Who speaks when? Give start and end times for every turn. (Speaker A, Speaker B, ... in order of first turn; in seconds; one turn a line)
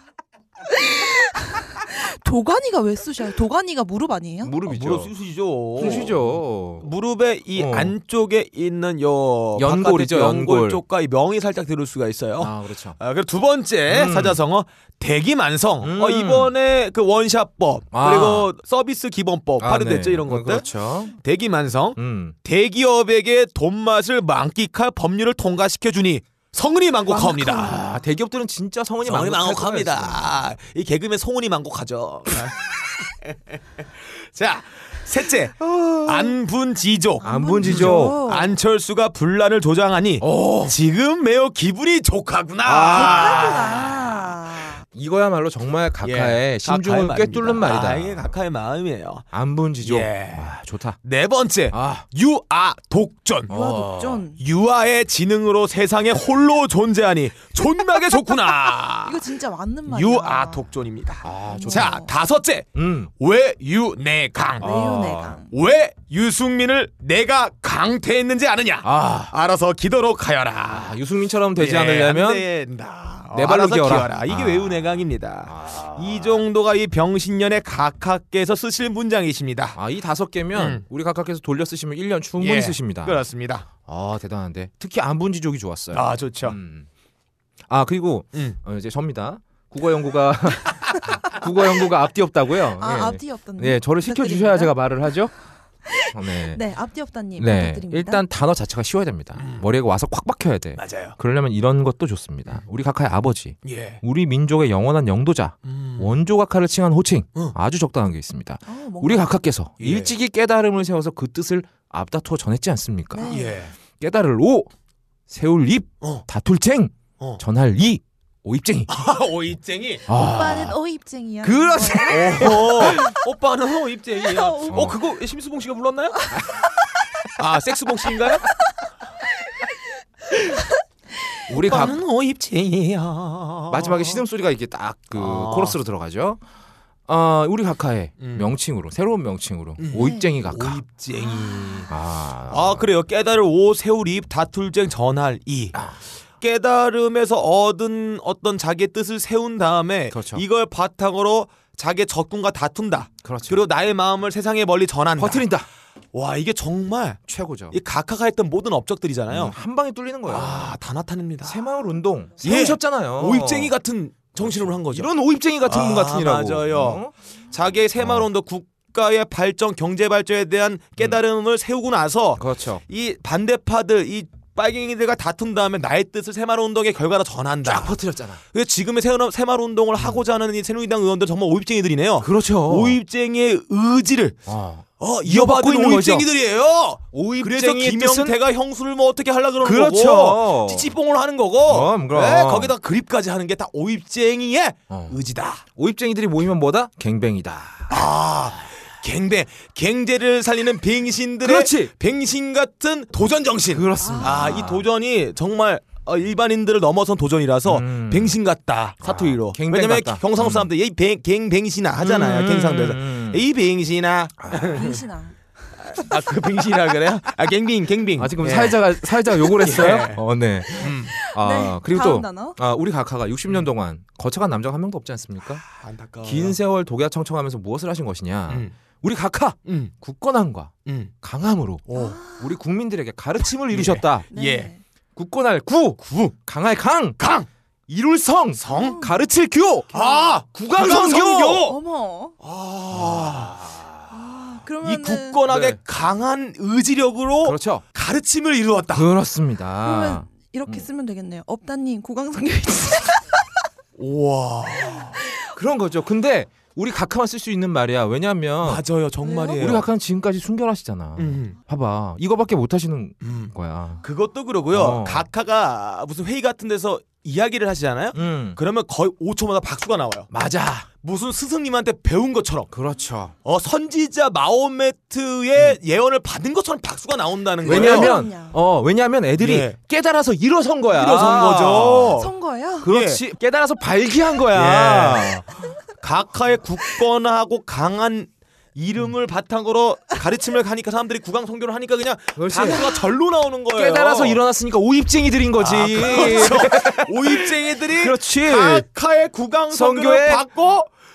Speaker A: 0.8-4.6
Speaker B: 4.4-5.1
Speaker C: 4.7-6.2
Speaker B: 5.8-6.9
Speaker C: 6.8-27.8
Speaker B: 7.5-7.9
Speaker B: 9.6-10.8
Speaker B: 12.4-12.9
Speaker B: 13.9-14.4
Speaker B: 15.8-16.5
Speaker B: 17.9-18.5
Speaker B: 19.6-21.1
Speaker B: 21.9-22.3
Speaker A: 27.1-27.9
Speaker B: 27.6-30.4
Speaker C: 29.0-32.7
Speaker C: 34.3-44.0
Speaker B: 35.6-36.3
Speaker A: 37.2-38.5
Speaker B: 37.2-38.2
Speaker B: 40.2-40.7
Speaker B: 42.6-43.6
Speaker A: 42.9-44.8
Speaker B: 44.9-48.3
Speaker C: 46.0-49.2
Speaker B: 49.3-51.0
Speaker C: 49.8-50.5
Speaker C: 51.0-53.5
Speaker B: 51.7-52.0
Speaker B: 53.5-54.2
Speaker A: 53.5-54.4
Speaker C: 54.4-59.2
Speaker A: 58.9-60.6
Speaker C: 59.9-64.6
Speaker B: 61.2-62.0
Speaker A: 61.3-62.1
Speaker B: 62.7-63.1
Speaker B: 64.6-65.4
Speaker A: 64.6-65.5
Speaker C: 65.5-71.0
Speaker B: 68.8-69.3
Speaker B: 70.7-72.5
Speaker C: 71.6-79.8
Speaker B: 73.3-76.4
Speaker B: 79.7-83.2
Speaker C: 80.5-80.8
Speaker C: 82.4-83.7
Speaker B: 83.8-86.9
Speaker C: 85.9-86.6
Speaker B: 87.7-95.3
Speaker C: 88.3-88.6
Speaker A: 92.8-94.7
Speaker A: 95.9-98.2
Speaker B: 96.1-96.6
Speaker B: 97.4-113.3
Speaker C: 99.3-99.6
Speaker C: 100.8-101.2
Speaker C: 103.6-104.0
Speaker C: 105.6-106.1
Speaker A: 108.7-109.3
Speaker C: 109.8-110.1
Speaker A: 113.1-113.5
Speaker C: 113.3-113.7
Speaker B: 114.0-114.7
Speaker B: 115.3-118.9
Speaker C: 118.9-120.0
Speaker B: 120.1-120.8
Speaker A: 120.1-123.1
Speaker B: 121.4-123.1
Speaker C: 122.1-126.3
Speaker B: 124.7-125.0
Speaker C: 127.4-128.4
Speaker B: 131.5-132.0
Speaker C: 131.5-134.2
Speaker B: 133.7-136.4
Speaker C: 135.1-135.8
Speaker B: 137.1-140.8
Speaker C: 138.2-138.5
Speaker C: 139.8-141.9
Speaker A: 140.0-140.3
Speaker A: 141.2-141.8
Speaker B: 141.9-142.8
Speaker C: 142.5-145.8
Speaker C: 146.4-155.6
Speaker B: 150.1-150.4
Speaker B: 153.2-153.6
Speaker B: 155.2-155.7
Speaker C: 156.1-159.5
Speaker B: 157.3-157.8
Speaker B: 159.3-160.8
Speaker C: 160.3-161.6
Speaker B: 161.4-163.7
Speaker C: 162.4-165.1
Speaker B: 164.4-167.1
Speaker C: 165.7-167.0
Speaker C: 167.5-177.9
Speaker B: 168.0-168.2
Speaker B: 172.4-172.8
Speaker B: 177.6-178.4
Speaker C: 178.5-184.4
Speaker B: 182.2-183.0
Speaker B: 184.5-186.2
Speaker C: 185.0-195.6
Speaker B: 187.1-188.4
Speaker B: 189.6-190.9
Speaker B: 191.7-192.7
Speaker B: 194.9-195.1
Speaker B: 195.8-198.0
Speaker C: 197.9-215.0
Speaker B: 201.4-201.9
Speaker B: 203.7-204.8
Speaker A: 204.0-204.5
Speaker B: 207.7-208.3
Speaker B: 209.0-210.7
Speaker B: 212.0-213.4
Speaker B: 214.4-214.8
Speaker A: 214.7-215.4
Speaker C: 215.9-218.8
Speaker B: 218.2-225.6
Speaker C: 219.4-220.2
Speaker C: 220.8-221.1
Speaker A: 220.8-222.6
Speaker C: 225.7-226.6
Speaker B: 226.2-231.8
Speaker C: 229.7-229.9
Speaker C: 230.8-231.1
Speaker C: 231.9-232.2
Speaker A: 231.9-232.5
Speaker B: 232.4-234.2
Speaker C: 233.7-234.7
Speaker A: 234.3-234.8
Speaker B: 235.2-237.2
Speaker C: 236.0-236.3
Speaker C: 237.2-237.5
Speaker B: 237.9-239.9
Speaker C: 238.6-239.0
Speaker A: 238.7-239.1
Speaker A: 239.9-240.4
Speaker C: 239.9-241.8
Speaker B: 240.5-241.7
Speaker A: 241.7-242.3
Speaker C: 242.4-243.5
Speaker B: 242.9-244.1
Speaker A: 244.1-245.4
Speaker C: 244.8-249.1
Speaker B: 245.5-245.8
Speaker B: 247.4-247.8
Speaker B: 248.9-250.9
Speaker A: 249.8-253.4
Speaker C: 254.0-255.2
Speaker B: 255.5-258.8
Speaker C: 258.6-259.9
Speaker A: 259.2-259.7
Speaker B: 259.5-264.0
Speaker C: 261.2-261.5
Speaker C: 263.2-270.3
Speaker B: 264.7-265.3
Speaker B: 268.1-268.6
Speaker B: 270.3-270.9
Speaker C: 271.0-272.7
Speaker B: 272.7-273.3
Speaker C: 273.4-278.1
Speaker B: 277.6-282.2
Speaker A: 277.7-278.6
Speaker C: 279.4-279.8
Speaker C: 280.9-282.3
Speaker A: 282.2-282.9
Speaker B: 282.8-285.5
Speaker C: 282.8-283.2
Speaker C: 284.5-285.4
Speaker C: 286.0-294.4
Speaker B: 292.4-292.8
Speaker B: 293.7-298.9
Speaker C: 295.6-300.9
Speaker B: 299.7-300.4